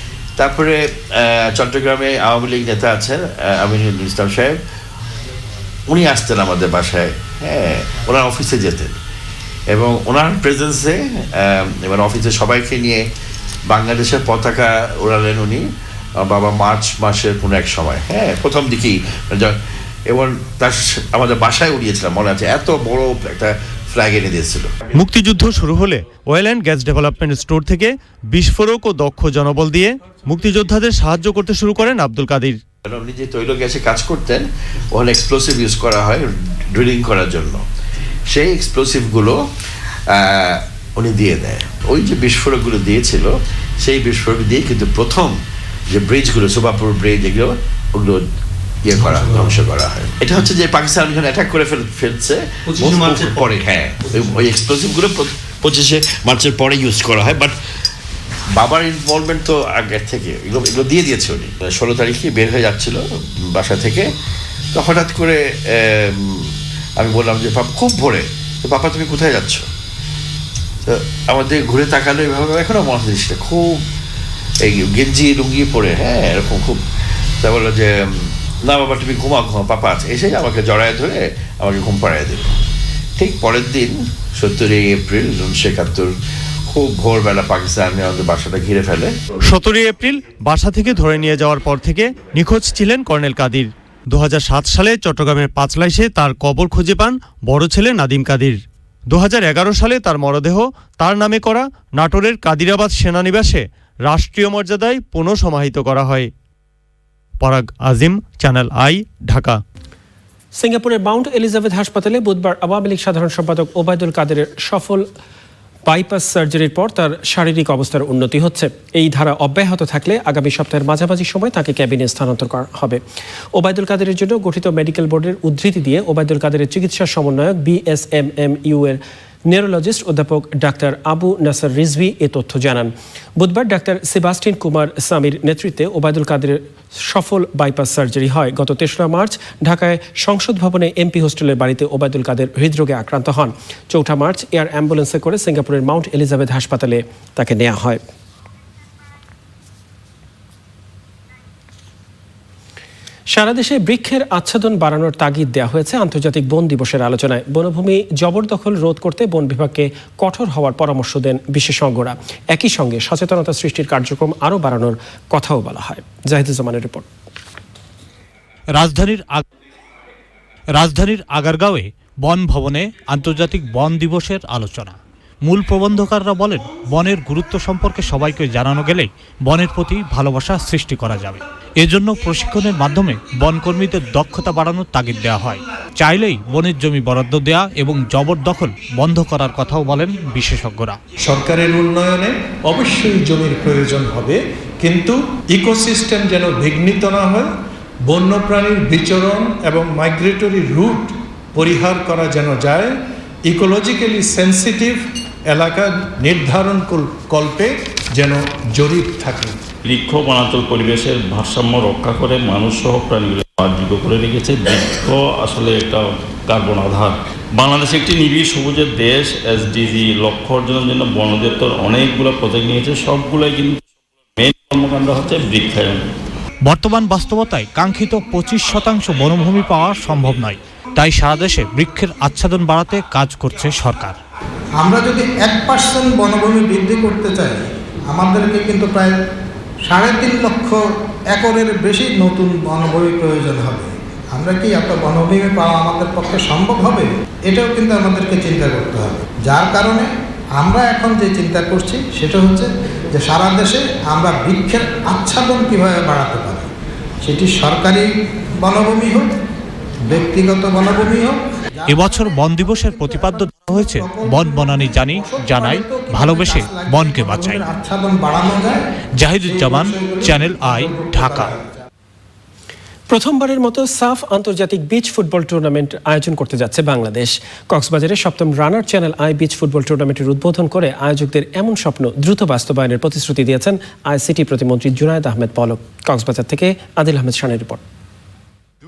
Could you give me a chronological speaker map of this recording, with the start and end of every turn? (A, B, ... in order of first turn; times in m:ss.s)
0:00.4-0:04.6 A
0:05.9-0:09.0 A
0:09.7-0:13.0 A
0:13.7-0:15.7 A
0:16.2-0:24.9 A
0:25.0-0:32.6 B
0:32.8-0:37.6 A
0:38.3-0:39.4 A
0:40.1-0:45.4 A
0:45.9-0:48.3 A
0:48.8-0:57.6 A
0:52.8-0:53.4 C
0:58.5-1:04.1 A
1:04.7-1:09.7 A
1:10.9-1:13.8 A
1:14.6-1:16.8 A
1:17.4-1:22.6 A
1:23.2-1:26.1 A
1:26.7-1:29.2 A
1:29.5-1:38.6 B
1:39.1-1:46.3 B
1:47.4-1:49.6 B
1:50.6-1:55.1 D
1:55.9-2:03.0 D
2:03.5-2:28.0 D
2:33.3-2:47.1 D
2:48.7-2:49.4 E
2:50.7-3:11.0 E
3:11.2-3:17.5 C
3:18.1-3:22.9 C
3:23.5-3:29.6 C
3:29.8-3:43.8 F
3:44.4-3:46.0 F
3:46.6-3:54.2 E
3:54.8-3:59.2 G
3:59.9-4:16.7 G
4:17.2-4:18.1 G
4:18.6-4:19.3 G
4:20.1-4:21.4 G
4:21.9-4:27.7 E
4:21.9-4:28.8 G
4:29.2-4:31.5 E
4:29.4-4:31.7 G
4:33.1-4:47.8 D